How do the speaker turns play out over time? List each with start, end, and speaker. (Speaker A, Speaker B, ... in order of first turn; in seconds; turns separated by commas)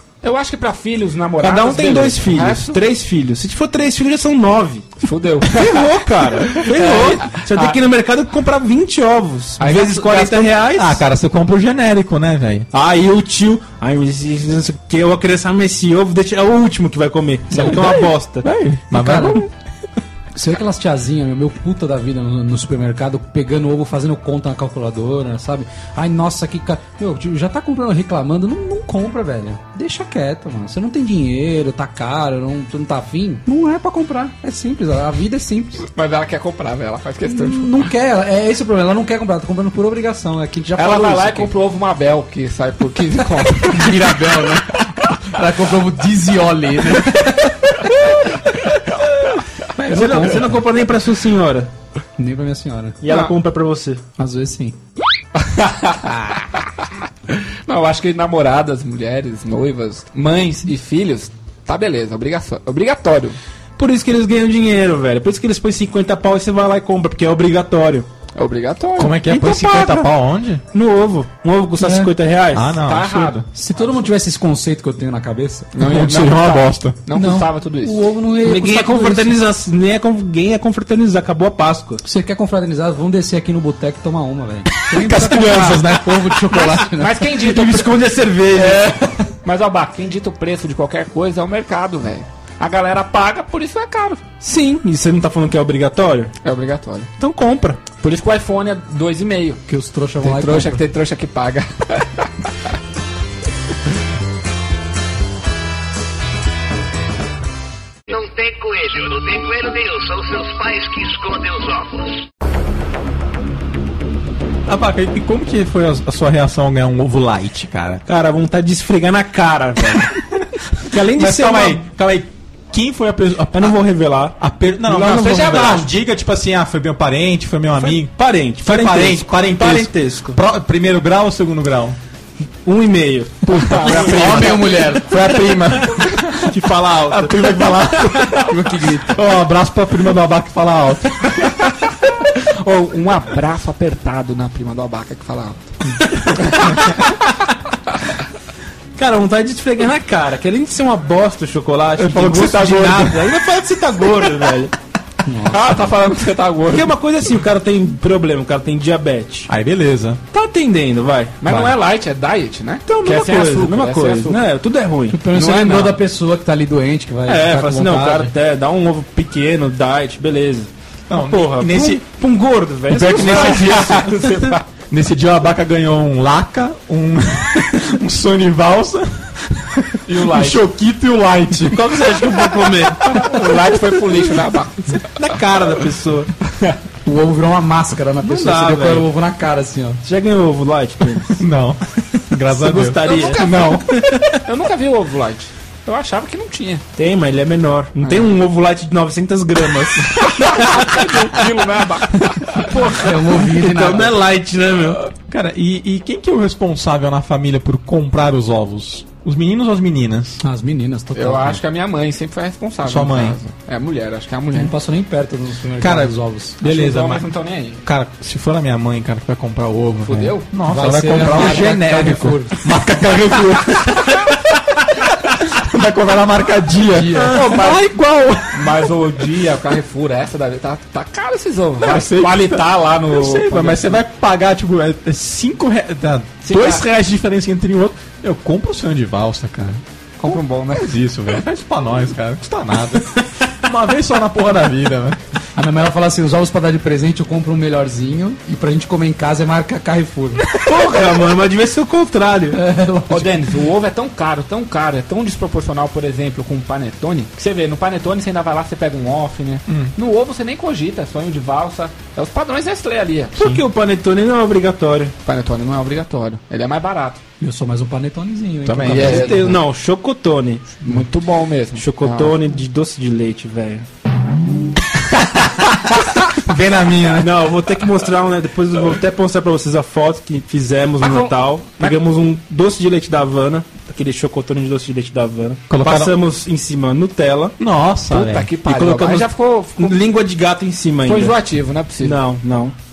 Speaker A: 0.2-2.8, Speaker B: 1.4-11.0, Speaker A: 5.0-6.0, Speaker A: 6.5-7.8, Speaker A: 9.6-10.6, Speaker C: 10.7-12.7, Speaker B: 12.7-18.5, Speaker C: 17.6-19.5, Speaker D: 18.9-19.5, Speaker D: 20.4-35.9, Speaker A: 36.0-37.9, Speaker D: 37.3-41.5, Speaker A: 40.8-44.1, Speaker D: 43.6-48.1, Speaker D: 49.8-50.6, Speaker B: 49.8-51.7, Speaker D: 52.2-53.0, Speaker B: 53.0-54.0, Speaker D: 54.2-54.8, Speaker A: 55.4-56.6, Speaker A: 57.3-63.4, Speaker B: 63.8-68.1, Speaker A: 68.3-69.2, Speaker C: 69.0-70.6, Speaker B: 69.3-70.1, Speaker B: 70.7-72.8, Speaker D: 71.8-72.1, Speaker C: 72.5-73.5, Speaker A: 72.8-74.0, Speaker D: 73.5-75.7, Speaker A: 75.7-78.1, Speaker C: 75.8-77.0, Speaker B: 77.2-77.5, Speaker D: 77.8-79.4, Speaker B: 78.4-82.0, Speaker D: 82.0-87.3, Speaker C: 84.9-86.7, Speaker A: 86.5-88.0, Speaker B: 87.3-89.2, Speaker A: 88.6-88.9, Speaker A: 89.4-94.2, Speaker B: 94.4-96.3, Speaker A: 96.4-97.1, Speaker B: 97.2-97.8, Speaker A: 98.0-99.6, Speaker D: 99.7-100.8, Speaker A: 100.2-102.3, Speaker E: 108.1-112.2, Speaker C: 114.7-118.0, Speaker B: 118.1-120.2, Speaker C: 120.4-123.8, Speaker B: 120.8-121.8, Speaker B: 123.5-124.4, Speaker C: 124.4-132.0, Speaker A: 124.9-125.9, Speaker B: 127.8-130.4, Speaker B: 132.6-134.4, Speaker C: 133.4-138.6, Speaker A: 133.5-134.8, Speaker D: 133.9-135.2, Speaker B: 136.5-137.5, Speaker D: 138.4-139.2, Speaker C: 139.1-141.5, Speaker A: 142.3-146.8, Speaker B: 148.9-154.8, Speaker C: 152.0-153.3, Speaker D: 155.2-155.8, Speaker A: 155.5-157.0, Speaker B: 156.7-159.5, Speaker C: 159.5-160.2, Speaker B: 160.3-161.5, Speaker A: 161.4-164.5, Speaker C: 161.5-161.7, Speaker B: 162.9-165.2, Speaker D: 165.1-168.3, Speaker A: 165.3-166.0, Speaker B: 167.3-174.1, Speaker C: 171.1-172.0, Speaker C: 172.9-182.8, Speaker A: 173.2-174.6, Speaker A: 180.1-180.7, Speaker B: 181.7-183.4, Speaker A: 183.0-185.2, Speaker B: 185.2-186.3, Speaker D: 187.1-190.0, Speaker B: 188.2-189.1, Speaker B: 190.0-191.4, Speaker C: 191.4-194.3, Speaker B: 192.5-194.2, Speaker A: 193.0-193.7, Speaker A: 194.4-196.9, Speaker B: 197.0-201.1, Speaker A: 198.0-198.3, Speaker A: 200.2-202.8, Speaker D: 202.6-204.2, Speaker B: 203.4-205.0, Speaker C: 205.1-210.4, Speaker D: 210.4-211.6, Speaker A: 211.2-214.7, Speaker C: 212.8-213.4, Speaker D: 214.5-216.6, Speaker C: 215.8-217.2, Speaker A: 216.6-217.8, Speaker C: 217.8-224.6, Speaker A: 220.1-220.5, Speaker D: 220.6-222.6, Speaker C: 225.5-228.9, Speaker D: 226.9-227.6, Speaker A: 227.2-227.9, Speaker A: 228.5-234.0, Speaker C: 231.8-245.2, Speaker A: 236.4-236.9, Speaker A: 240.2-241.0, Speaker D: 245.6-250.5, Speaker B: 250.5-252.6, Speaker D: 252.5-253.4, Speaker A: 253.1-263.3, Speaker C: 263.4-263.6, Speaker B: 263.4-265.1, Speaker A: 265.2-267.2, Speaker D: 267.4-269.4, Speaker C: 268.6-269.3, Speaker A: 268.8-269.6, Speaker B: 268.9-270.8, Speaker A: 270.8-272.4, Speaker B: 271.8-273.9, Speaker C: 275.8-277.4, Speaker B: 277.2-287.6, Speaker A: 281.0-282.0, Speaker C: 285.7-286.1, Speaker C: 287.6-288.5, Speaker A: 288.1-290.0, Speaker B: 288.7-289.3, Speaker B: 289.8-291.4, Speaker A: 291.1-292.2, Speaker B: 292.0-292.8